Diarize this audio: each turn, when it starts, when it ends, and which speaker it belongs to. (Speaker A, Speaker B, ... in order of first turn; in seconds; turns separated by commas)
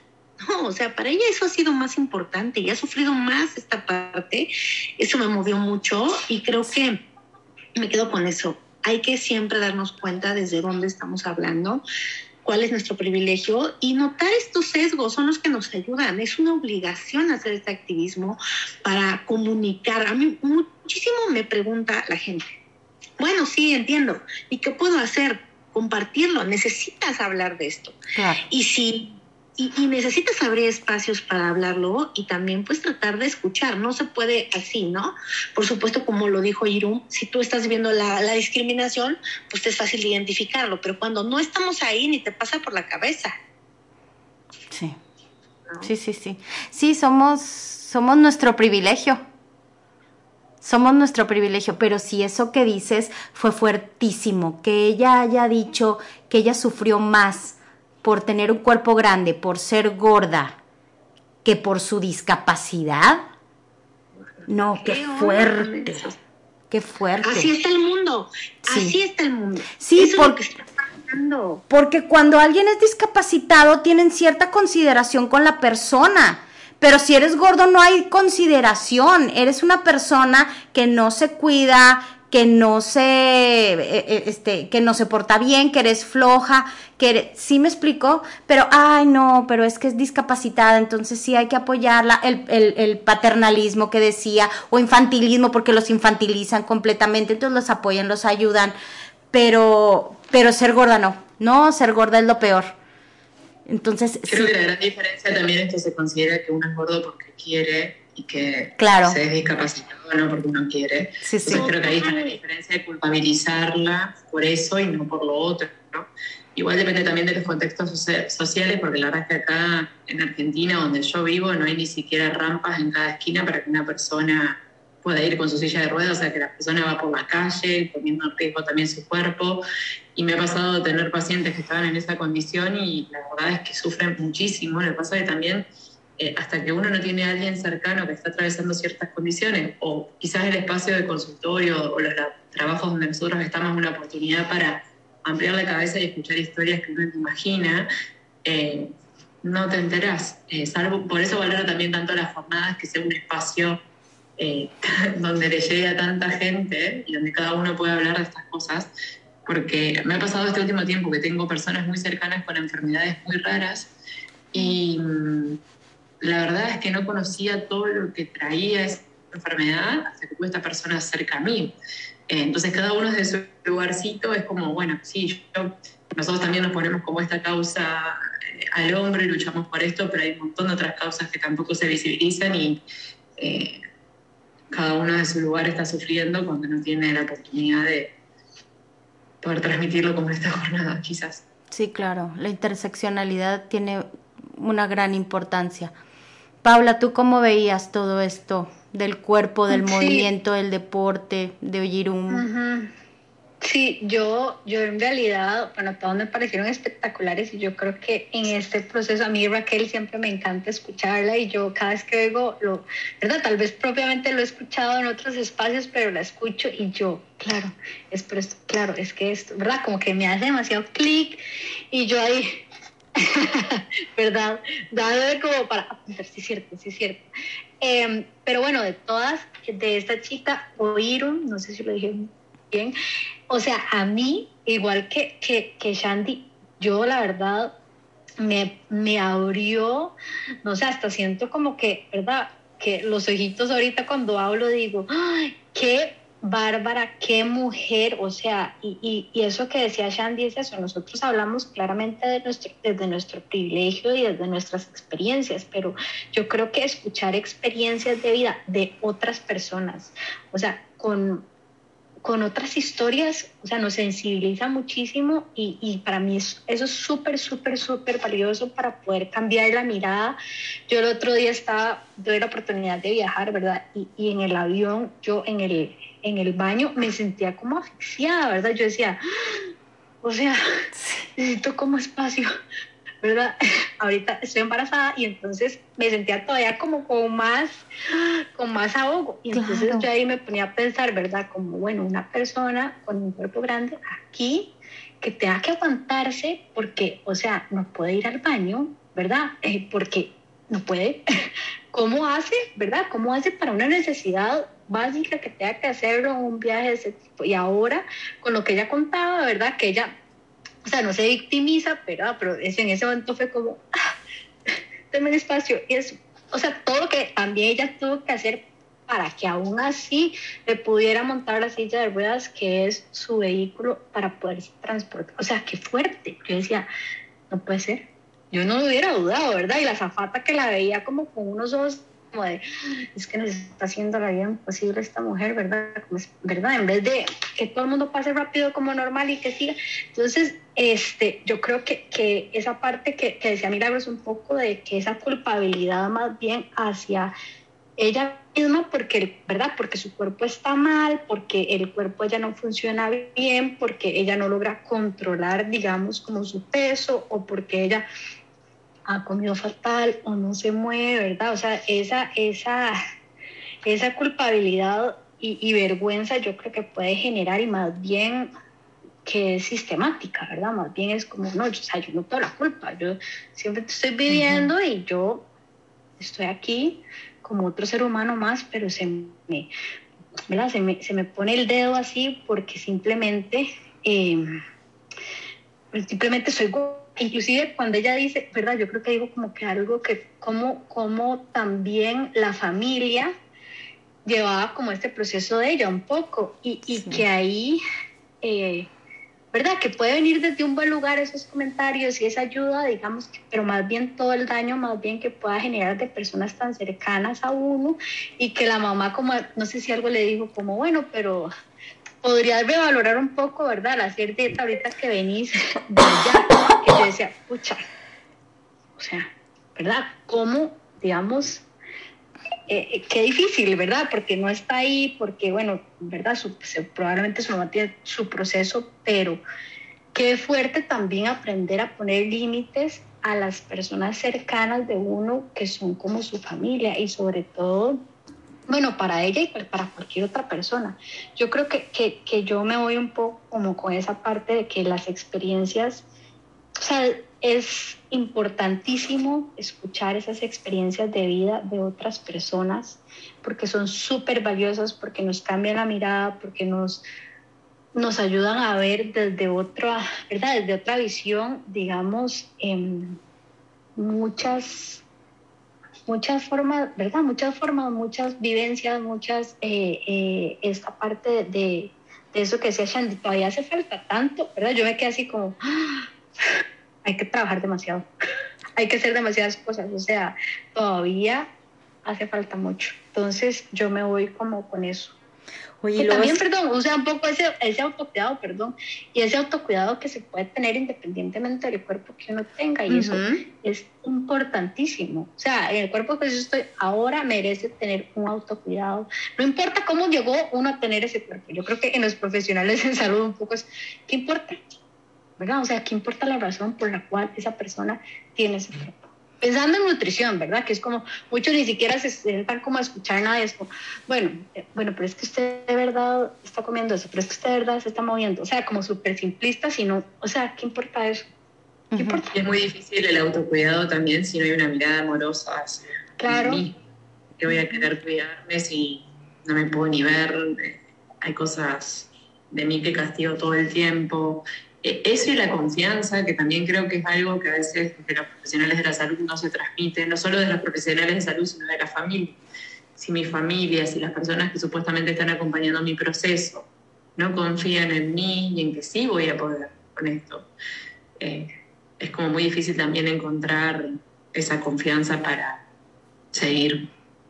Speaker A: 0.4-7.0, Speaker A: 7.8-11.8, Speaker A: 12.4-22.6, Speaker A: 23.2-28.0, Speaker B: 28.1-28.4, Speaker A: 28.5-43.3, Speaker B: 44.7-45.0, Speaker B: 45.8-49.2, Speaker B: 50.6-60.6, Speaker B: 61.4-63.2, Speaker B: 64.5-66.1, Speaker A: 64.7-66.2, Speaker B: 66.7-67.5, Speaker A: 67.2-71.6, Speaker B: 68.7-69.0, Speaker B: 69.8-70.4, Speaker B: 71.7-98.7, Speaker B: 99.3-102.7, Speaker B: 103.7-104.5, Speaker C: 104.3-129.6, Speaker B: 108.8-109.2, Speaker B: 111.2-111.7, Speaker D: 111.6-112.3, Speaker C: 130.1-135.7, Speaker C: 136.2-147.9, Speaker C: 148.4-153.8, Speaker C: 154.4-158.9, Speaker C: 159.4-163.9, Speaker C: 164.5-165.6, Speaker C: 166.2-171.7, Speaker C: 172.3-182.8, Speaker C: 183.4-183.8, Speaker C: 184.7-188.1, Speaker C: 189.4-191.4, Speaker B: 191.7-195.9, Speaker B: 196.6-202.4, Speaker D: 199.7-200.3, Speaker D: 202.3-202.9, Speaker D: 203.6-222.6, Speaker D: 223.2-227.2, Speaker D: 227.8-232.9, Speaker D: 233.5-237.7, Speaker D: 238.4-261.4, Speaker D: 262.2-270.4, Speaker D: 270.9-279.6, Speaker D: 280.2-280.6, Speaker B: 280.9-281.3, Speaker D: 281.4-282.5, Speaker D: 283.2-301.2, Speaker B: 289.5-290.1, Speaker D: 301.9-310.1, Speaker D: 310.8-313.8, Speaker D: 315.1-326.9, Speaker D: 327.5-332.6, Speaker D: 333.1-347.3, Speaker D: 348.0-358.0, Speaker D: 359.1-362.9, Speaker D: 363.9-368.5, Speaker D: 369.2-375.4, Speaker B: 374.3-374.7, Speaker D: 376.2-379.7, Speaker D: 380.5-384.4, Speaker D: 385.9-393.3, Speaker D: 394.2-397.8, Speaker B: 396.9-397.2, Speaker D: 398.4-398.9, Speaker D: 399.5-411.5, Speaker D: 412.2-417.8, Speaker D: 419.0-421.6, Speaker D: 422.7-429.4, Speaker D: 430.1-438.0, Speaker D: 438.7-446.0, Speaker D: 446.8-457.0, Speaker D: 457.9-463.2, Speaker D: 464.0-465.0, Speaker D: 466.1-476.1, Speaker D: 477.0-478.1, Speaker D: 478.8-481.5, Speaker D: 482.0-485.1, Speaker B: 485.8-486.4, Speaker D: 486.0-504.6, Speaker B: 492.9-493.4, Speaker D: 505.4-521.2, Speaker B: 521.9-522.2, Speaker D: 522.0-522.3, Speaker C: 522.3-526.7, Speaker D: 526.2-526.6, Speaker C: 527.4-542.4, Speaker C: 543.0-550.5, Speaker C: 551.2-551.5, Speaker C: 552.0-555.6, Speaker C: 556.3-556.9